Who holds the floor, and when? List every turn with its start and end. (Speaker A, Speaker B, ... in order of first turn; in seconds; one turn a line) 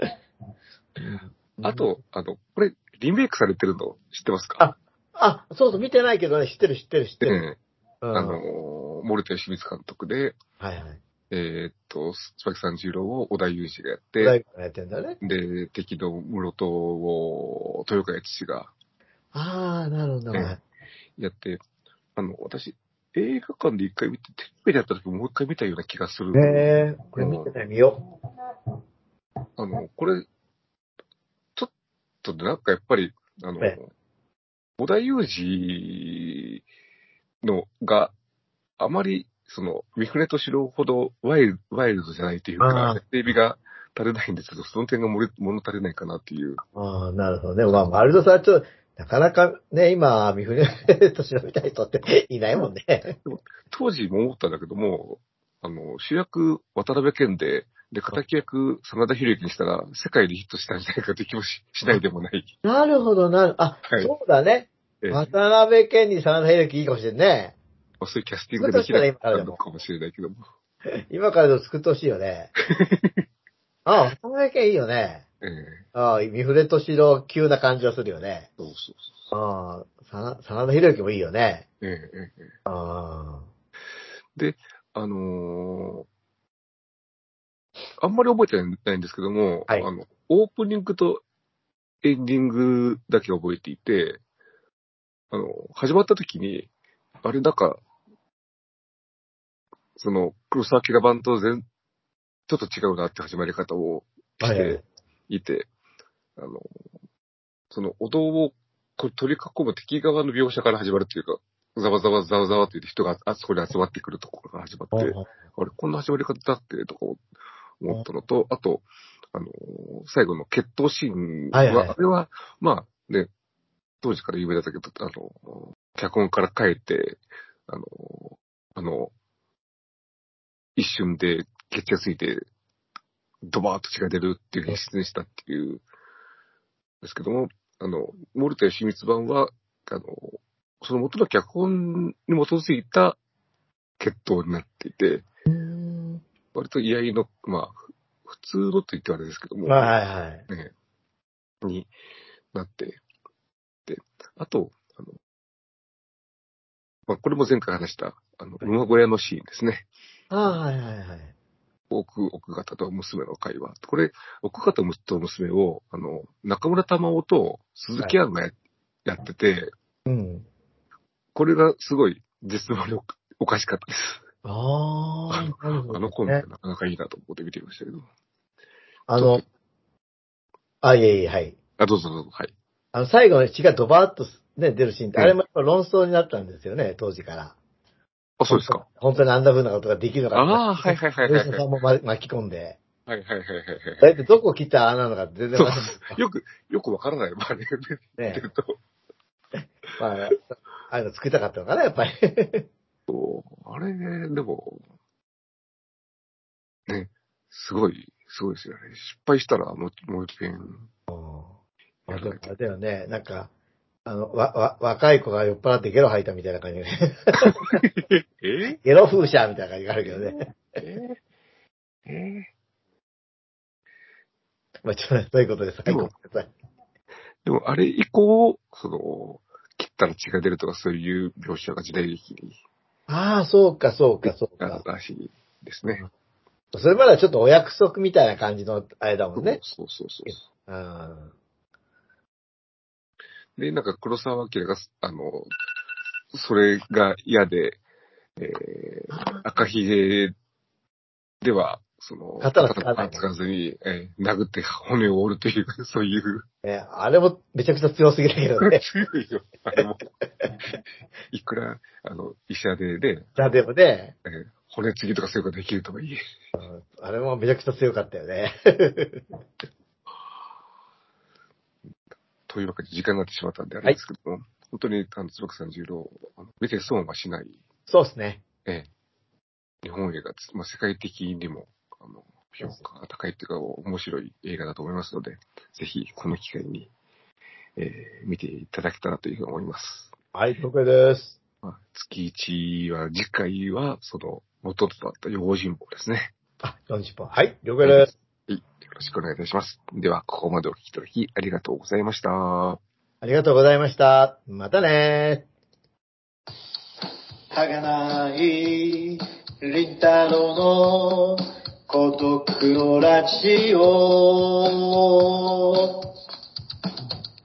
Speaker A: 1.0-1.9
Speaker B: 1.6-4.6
Speaker A: 4.6-7.4
Speaker B: 7.2-7.6
Speaker A: 8.0-8.4
Speaker B: 8.1-10.4
Speaker A: 10.6-11.0
Speaker B: 11.3-14.4
Speaker A: 14.2-15.2
Speaker B: 15.2-18.7
Speaker A: 19.3-20.6
Speaker B: 21.2-21.6
Speaker B: 22.2-27.5
Speaker A: 26.3-28.0
Speaker B: 29.6-30.2
Speaker B: 32.2-33.9
Speaker B: 34.8-36.6
Speaker B: 37.4-38.1
Speaker B: 38.8-46.6
Speaker A: 42.6-43.0
Speaker A: 46.8-53.2
Speaker B: 53.2-62.5
Speaker A: 62.6-67.6
Speaker B: 65.0-65.3
Speaker B: 68.0-70.4
Speaker A: 68.5-69.6
Speaker A: 71.0-72.5
Speaker B: 72.7-73.2
Speaker A: 73.8-75.2
Speaker B: 75.4-75.8
Speaker A: 75.9-78.5
Speaker B: 78.6-79.1
Speaker A: 79.3-81.7
Speaker B: 81.8-82.5
Speaker A: 82.7-83.5
Speaker B: 84.4-86.1
Speaker B: 88.0-91.2
Speaker B: 92.0-94.2
Speaker B: 95.3-96.7
Speaker B: 97.2-97.8
Speaker B: 100.0-101.6
Speaker B: 102.5-105.7
Speaker A: 104.4-104.8
Speaker B: 106.4-106.7
Speaker B: 107.7-117.2
Speaker A: 114.9-115.3
Speaker B: 117.8-123.3
Speaker A: 121.5-122.0
Speaker B: 124.0-129.1
Speaker B: 130.8-132.4
Speaker B: 133.5-135.8
Speaker B: 137.0-143.2
Speaker B: 144.0-145.2
Speaker A: 145.5-146.2
Speaker B: 146.5-149.9
Speaker A: 149.7-150.4
Speaker B: 151.6-151.9
Speaker B: 152.5-153.0
Speaker B: 153.9-155.2
Speaker B: 157.1-159.9
Speaker A: 160.3-161.3
Speaker B: 161.9-168.5
Speaker B: 169.1-169.7
Speaker A: 170.1-170.5
Speaker B: 171.3-174.2
Speaker A: 174.4-176.4
Speaker B: 175.3-178.1
Speaker A: 179.1-179.4
Speaker B: 179.2-179.4
Speaker A: 180.8-181.6
Speaker B: 181.8-182.5
Speaker A: 182.9-187.6
Speaker B: 188.4-188.8
Speaker A: 188.5-192.8
Speaker B: 190.3-191.7
Speaker B: 193.1-194.1
Speaker A: 194.0-196.2
Speaker B: 195.6-198.8
Speaker A: 198.2-198.4
Speaker A: 199.6-202.7
Speaker B: 203.1-204.8
Speaker B: 206.9-210.9
Speaker A: 211.1-211.5
Speaker B: 212.1-212.4
Speaker A: 212.1-213.5
Speaker A: 214.1-217.8
Speaker B: 217.4-218.8
Speaker A: 218.8-220.6
Speaker B: 220.1-221.2
Speaker B: 222.1-222.5
Speaker A: 224.8-226.5
Speaker B: 225.9-226.1
Speaker B: 227.4-232.6
Speaker A: 233.1-234.8
Speaker B: 234.2-236.0
Speaker A: 236.7-239.6
Speaker B: 239.4-240.4
Speaker A: 240.3-241.3
Speaker B: 243.6-245.5
Speaker B: 246.3-247.8
Speaker B: 248.4-250.3
Speaker A: 249.1-249.4
Speaker B: 251.4-256.4
Speaker A: 252.4-253.3
Speaker A: 256.6-258.8
Speaker B: 258.6-260.1
Speaker B: 261.3-263.3
Speaker A: 263.4-264.1
Speaker B: 264.2-266.2
Speaker A: 266.6-269.2
Speaker B: 272.5-277.6
Speaker A: 277.9-278.4
Speaker B: 279.8-286.9
Speaker B: 287.8-290.1
Speaker A: 290.3-291.4
Speaker B: 291.6-296.3
Speaker A: 296.6-298.1
Speaker B: 297.8-302.8
Speaker A: 303.2-305.5
Speaker A: 307.6-308.4
Speaker C: 307.8-308.5
Speaker C: 309.8-311.1
Speaker A: 309.9-310.3
Speaker C: 311.9-313.8